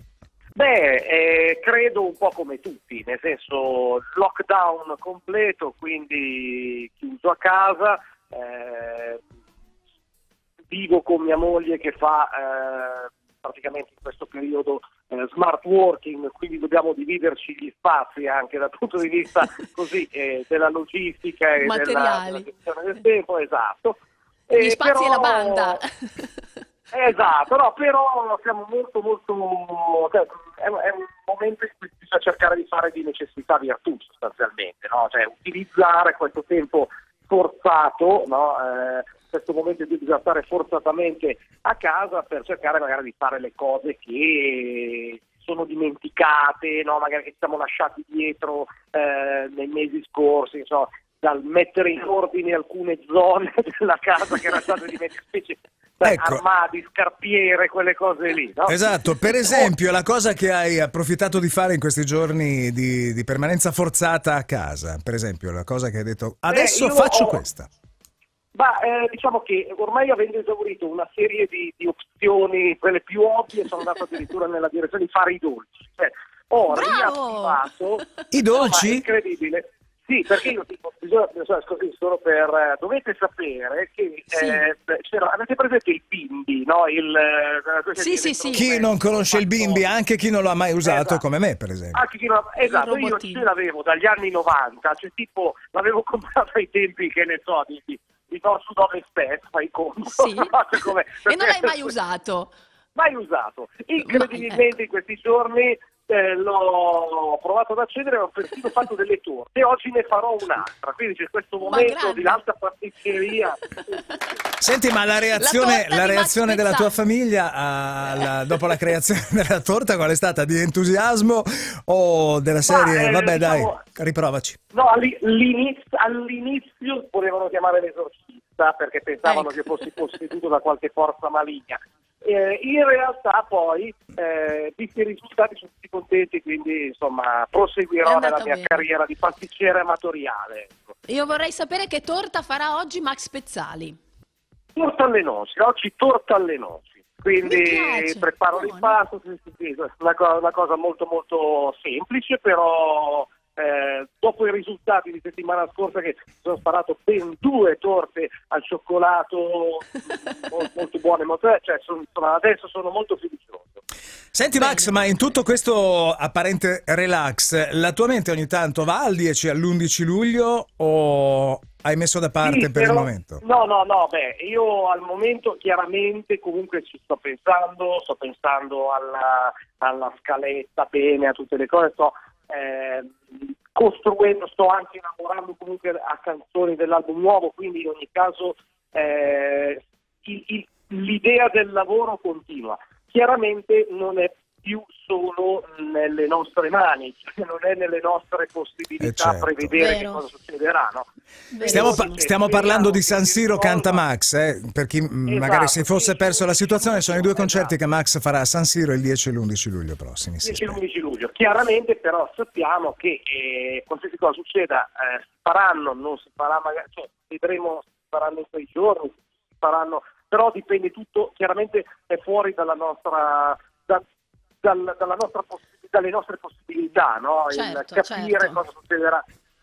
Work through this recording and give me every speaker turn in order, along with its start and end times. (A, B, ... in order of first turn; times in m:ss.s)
0:00.5-0:09.2 A
0:10.7-0:25.8 A
0:21.6-0:22.5 B
0:24.6-0:26.4 B
0:26.9-0:58.8 A
0:56.0-0:56.4 C
0:58.7-1:07.7 C
0:59.4-0:59.7 A
1:06.5-1:07.4 A
1:08.5-1:29.9 A
1:16.6-1:17.6 B
1:18.3-1:19.0 C
1:24.3-1:24.6 B
1:28.0-1:28.7 B
1:28.5-1:32.0 C
1:30.8-1:31.2 A
1:31.9-1:41.9 A
1:32.6-1:33.4 B
1:40.0-1:42.5 B
1:42.9-1:54.4 A
1:44.0-1:44.6 B
1:51.6-1:52.4 B
1:54.6-2:04.6 C
1:55.3-1:57.0 B
2:02.6-2:03.8 A
2:04.7-2:20.8 A
2:09.2-2:09.6 B
2:18.0-2:18.9 B
2:21.0-2:24.0 B
2:24.7-2:39.9 A
2:27.4-2:29.0 B
2:40.4-2:43.8 A
2:44.3-2:53.4 C
2:44.6-2:45.0 B
2:52.4-3:21.1 A
3:19.0-3:19.9 C
3:19.8-3:20.2 B
3:21.5-3:22.2 B
3:21.6-3:24.0 A
3:21.6-3:30.8 C
3:25.2-3:27.7 A
3:30.4-3:44.0 A
3:44.6-3:49.2 A
3:47.5-3:48.6 B